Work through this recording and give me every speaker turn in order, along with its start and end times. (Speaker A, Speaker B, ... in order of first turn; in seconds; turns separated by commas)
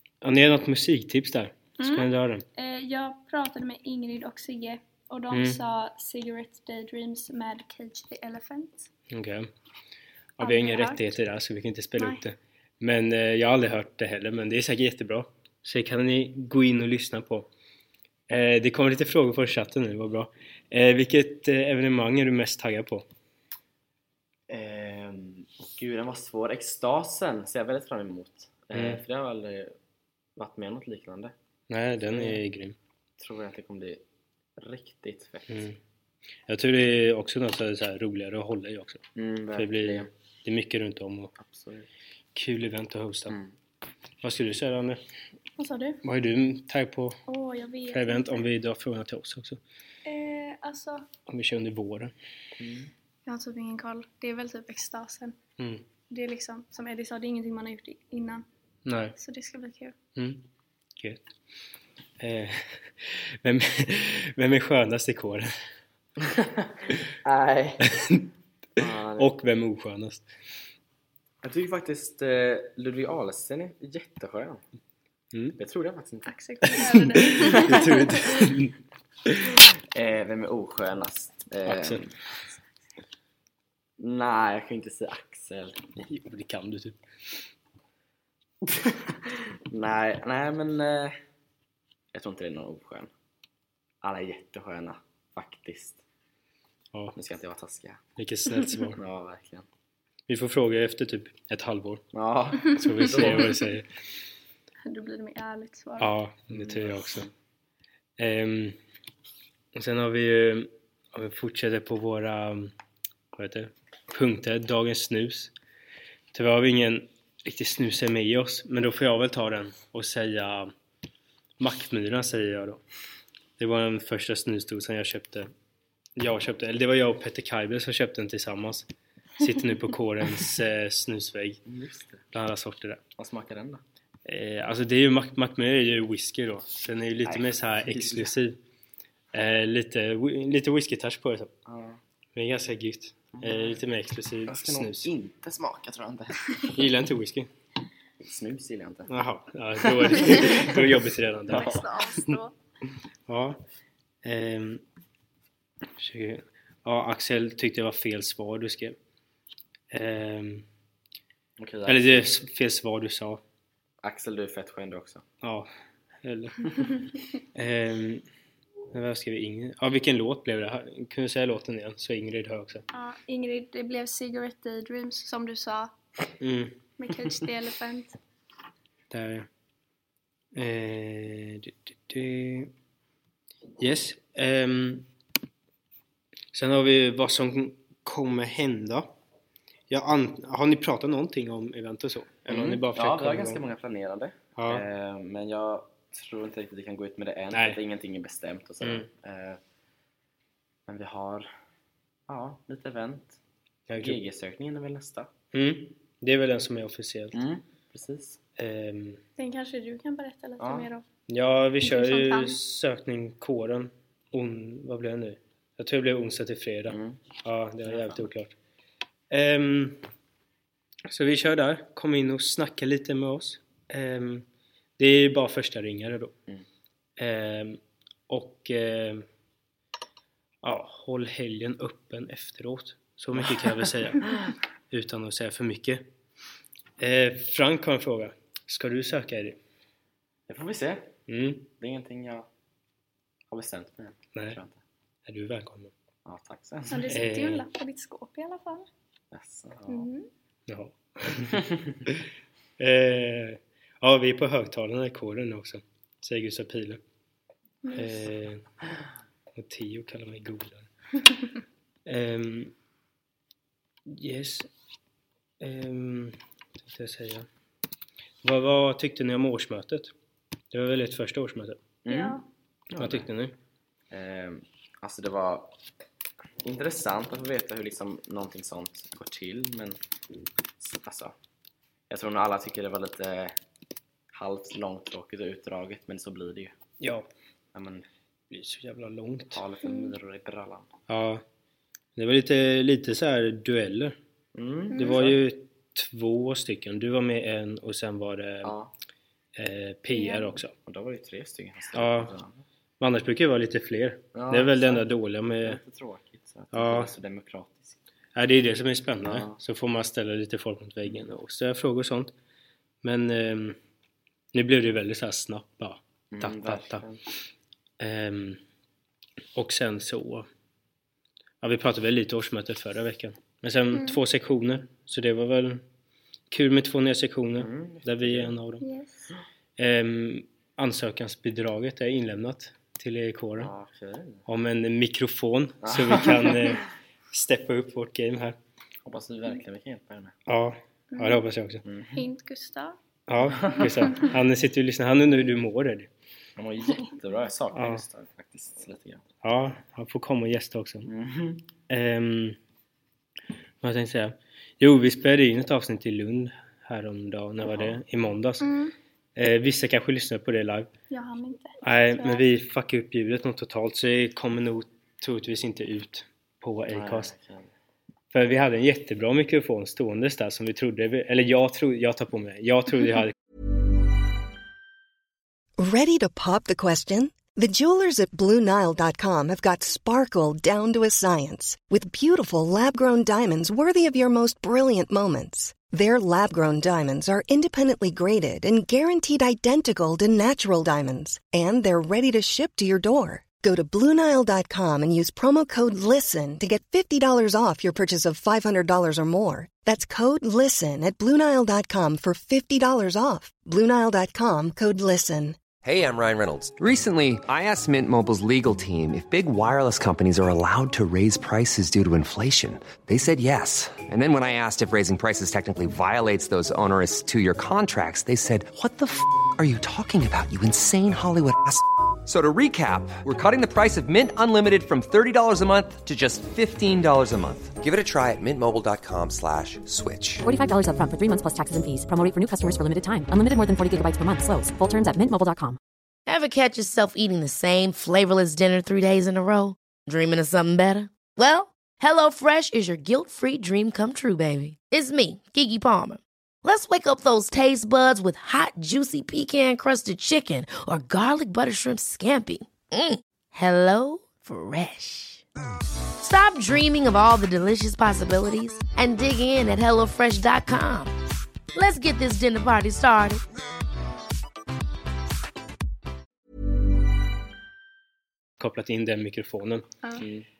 Speaker A: 0.2-2.4, Speaker B: 1.8-8.9, Speaker A: 5.3-5.6, Speaker A: 9.1-9.5, Speaker A: 10.4-17.5, Speaker B: 10.4-11.2, Speaker A: 18.3-23.0, Speaker C: 24.5-29.7, Speaker A: 28.7-29.0, Speaker C: 30.4-31.3, Speaker A: 31.7-32.8, Speaker C: 32.1-32.4, Speaker C: 33.2-34.0, Speaker C: 34.6-35.7, Speaker A: 35.5-35.8, Speaker A: 36.5-39.0, Speaker C: 39.1-40.1, Speaker A: 39.5-41.3, Speaker C: 41.4-41.9, Speaker A: 42.3-43.4, Speaker A: 44.2-45.0, Speaker B: 45.6-46.0, Speaker A: 46.0-47.2, Speaker B: 47.3-48.4, Speaker A: 47.9-49.6, Speaker B: 50.0-51.1, Speaker A: 51.3-52.1, Speaker C: 52.6-52.9, Speaker B: 53.2-55.4, Speaker A: 55.6-55.8, Speaker B: 56.1-58.4, Speaker A: 58.8-59.1, Speaker B: 59.1-60.0, Speaker A: 60.1-60.4, Speaker A: 62.2-65.5, Speaker C: 66.2-67.9, Speaker A: 67.9-68.2, Speaker C: 68.8-69.3, Speaker A: 69.2-70.2, Speaker C: 71.4-74.6, Speaker C: 75.6-77.9, Speaker B: 76.2-78.2, Speaker A: 76.7-78.8, Speaker C: 79.3-82.1, Speaker A: 81.7-82.0, Speaker C: 84.0-85.8, Speaker A: 86.0-87.0, Speaker C: 88.6-91.1, Speaker C: 92.1-93.1, Speaker C: 94.0-96.0, Speaker C: 97.1-98.0, Speaker A: 98.2-99.0, Speaker C: 98.9-99.7, Speaker A: 100.3-102.0, Speaker C: 102.1-103.7, Speaker A: 102.7-103.8, Speaker B: 104.8-106.1, Speaker A: 106.0-107.3, Speaker C: 106.5-107.3, Speaker A: 108.2-108.8, Speaker A: 109.7-112.7, Speaker A: 113.3-115.5, Speaker A: 116.3-120.7, Speaker A: 121.6-122.8, Speaker A: 123.6-125.5, Speaker A: 126.2-128.9, Speaker A: 129.4-131.6, Speaker C: 131.7-132.2, Speaker A: 132.3-133.0, Speaker C: 133.2-133.8, Speaker A: 134.2-138.6, Speaker C: 137.2-138.3, Speaker A: 139.3-141.5, Speaker C: 141.7-142.0, Speaker A: 142.3-145.1, Speaker C: 143.3-143.8, Speaker C: 144.4-146.8, Speaker A: 146.7-147.5, Speaker C: 148.2-149.1, Speaker A: 149.1-151.8, Speaker C: 150.1-150.8, Speaker C: 151.5-151.9, Speaker B: 151.5-152.5, Speaker A: 153.3-153.6, Speaker A: 154.2-154.8, Speaker A: 156.0-159.0, Speaker A: 159.9-160.7, Speaker C: 161.6-162.3, Speaker A: 161.8-163.4, Speaker C: 164.0-165.2, Speaker A: 165.4-165.7, Speaker A: 166.2-166.7, Speaker A: 167.5-168.2, Speaker A: 168.9-172.8, Speaker B: 172.9-175.9, Speaker A: 176.4-176.7, Speaker B: 177.0-178.1, Speaker A: 179.1-179.5, Speaker A: 180.5-182.7, Speaker A: 183.8-185.1, Speaker A: 186.5-189.1, Speaker A: 189.9-193.6, Speaker C: 192.5-199.6, Speaker A: 194.6-194.8, Speaker A: 197.5-197.8, Speaker A: 198.8-199.1, Speaker C: 200.9-201.5, Speaker C: 202.3-203.4, Speaker A: 203.9-204.2, Speaker C: 204.0-205.3, Speaker A: 205.5-207.4, Speaker C: 207.3-208.4, Speaker A: 208.6-209.2, Speaker B: 209.4-211.0, Speaker C: 210.6-210.9, Speaker A: 211.3-218.5, Speaker B: 211.8-212.6, Speaker C: 216.9-217.2, Speaker C: 217.9-218.3, Speaker A: 219.3-220.0, Speaker A: 221.1-224.4, Speaker A: 225.0-226.3, Speaker A: 227.2-229.2, Speaker A: 230.6-234.3, Speaker C: 233.4-233.7, Speaker A: 234.9-236.0, Speaker A: 237.0-239.6, Speaker C: 240.5-241.1, Speaker A: 241.3-241.7, Speaker C: 241.7-242.5, Speaker C: 243.5-244.8, Speaker A: 245.3-245.9, Speaker C: 246.2-247.2, Speaker B: 246.9-248.9, Speaker A: 247.1-247.6, Speaker C: 249.3-250.1, Speaker B: 249.9-250.3, Speaker A: 250.7-252.2, Speaker C: 251.6-251.9, Speaker A: 252.8-257.0, Speaker B: 257.8-258.2, Speaker A: 257.9-258.6, Speaker A: 259.6-260.9, Speaker A: 262.1-262.7, Speaker A: 264.1-264.7, Speaker A: 265.6-267.5, Speaker A: 268.4-270.1, Speaker A: 270.7-271.8, Speaker C: 272.0-273.3, Speaker B: 272.1-272.4, Speaker A: 273.0-273.6, Speaker C: 274.1-275.7, Speaker C: 276.6-280.0, Speaker C: 280.8-281.3, Speaker C: 282.1-283.6, Speaker C: 284.3-286.7, Speaker A: 287.0-287.3, Speaker C: 287.7-288.1, Speaker A: 288.5-289.6, Speaker C: 289.5-290.9, Speaker B: 289.8-290.1, Speaker A: 291.1-291.4, Speaker A: 292.1-294.2, Speaker C: 294.5-295.4, Speaker B: 294.9-295.2, Speaker A: 294.9-298.8, Speaker C: 298.6-298.9, Speaker A: 299.6-300.7, Speaker B: 300.1-300.5, Speaker C: 300.8-302.6, Speaker A: 301.9-302.3, Speaker A: 303.0-305.8, Speaker C: 304.3-305.0, Speaker C: 305.6-308.0, Speaker A: 306.7-307.1, Speaker A: 308.3-312.3, Speaker C: 309.2-309.6, Speaker A: 313.0-313.8, Speaker A: 314.5-317.0, Speaker C: 316.3-317.2, Speaker A: 318.0-318.6, Speaker A: 319.5-320.5, Speaker A: 321.6-325.8, Speaker B: 323.9-324.2, Speaker A: 326.5-328.9, Speaker C: 327.6-328.5, Speaker B: 328.8-329.3, Speaker A: 329.8-333.7, Speaker C: 333.6-334.4, Speaker A: 334.5-338.6, Speaker C: 335.8-336.8, Speaker C: 339.0-340.4, Speaker A: 340.5-341.8, Speaker B: 341.1-341.4, Speaker C: 341.9-342.2, Speaker B: 342.1-343.0, Speaker A: 343.3-346.1, Speaker C: 343.5-344.2, Speaker C: 346.6-349.2, Speaker A: 347.7-348.0, Speaker A: 349.4-351.1, Speaker C: 351.1-351.6, Speaker A: 351.9-352.6, Speaker A: 353.8-358.7, Speaker C: 357.6-358.0, Speaker B: 358.6-358.9, Speaker A: 359.4-360.9, Speaker B: 361.1-362.4, Speaker A: 361.8-367.3, Speaker C: 366.9-367.7, Speaker A: 368.3-373.3, Speaker D: 375.8-405.6, Speaker E: 405.8-430.4, Speaker F: 430.4-435.8, Speaker G: 436.3-455.4, Speaker G: 456.2-461.1, Speaker G: 461.7-463.4, Speaker A: 468.6-469.9, Speaker C: 470.2-470.4